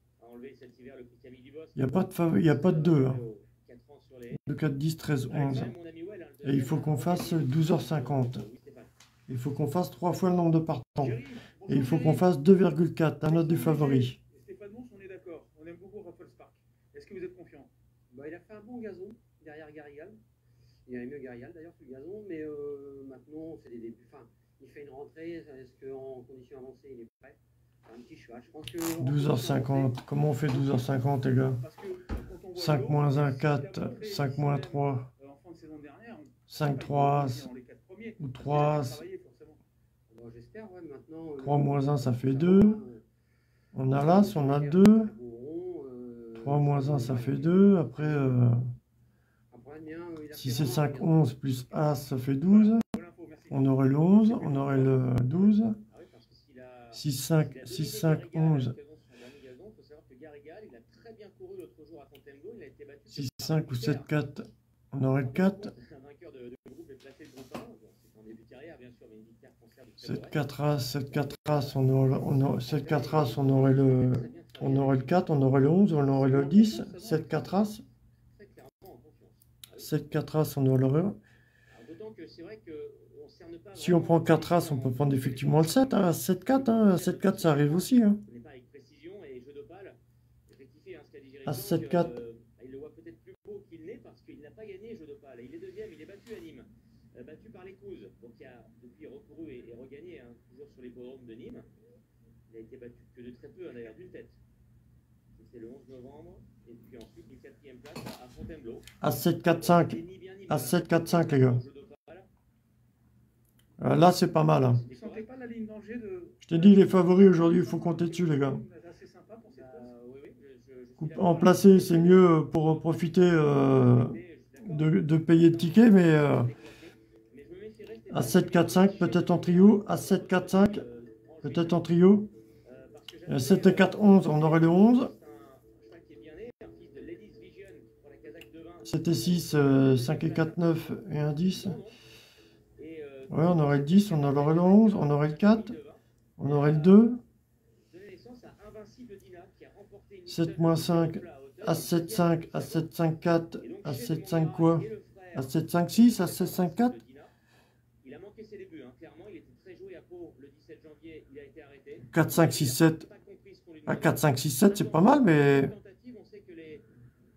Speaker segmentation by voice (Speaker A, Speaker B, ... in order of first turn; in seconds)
Speaker A: 0.2-4.4, 5.3-8.9, 55.8-64.1, 65.2-75.3, 76.2-77.7, 78.3-79.9, 81.7-101.7, 102.5-104.4, 105.3-108.9, 109.4-112.3, 114.7-115.2, 119.5-131.9, 132.6-142.0, 142.8-147.1, 147.9-152.9, 153.6-157.3, 158.0-166.8
Speaker B: 1.8-3.2, 4.4-5.7, 6.4-8.4, 9.3-14.2, 29.0-31.6, 32.5-35.0, 36.5-37.5, 38.2-39.0, 41.4-42.8, 43.7-45.1, 46.4-48.6, 50.3-52.8, 53.5-55.8, 56.9-58.7, 63.1-65.7, 70.0-77.8, 79.8-81.2, 83.8-88.2, 91.4-92.1, 109.0-111.6, 113.8-114.8, 116.4-118.6, 121.0-126.5, 128.1-130.8, 131.4-132.3, 133.3-135.1, 138.8-141.8, 143.3-145.7, 146.4-147.2, 150.3-156.9, 162.1-163.1, 163.8-165.7
Speaker C: 11.0-12.4, 13.3-17.7, 29.6-29.9, 30.5-39.6, 52.5-55.4, 114.8-119.9
Speaker D: 18.1-20.2, 20.9-29.7, 40.1-43.0, 43.9-48.3, 49.5-51.4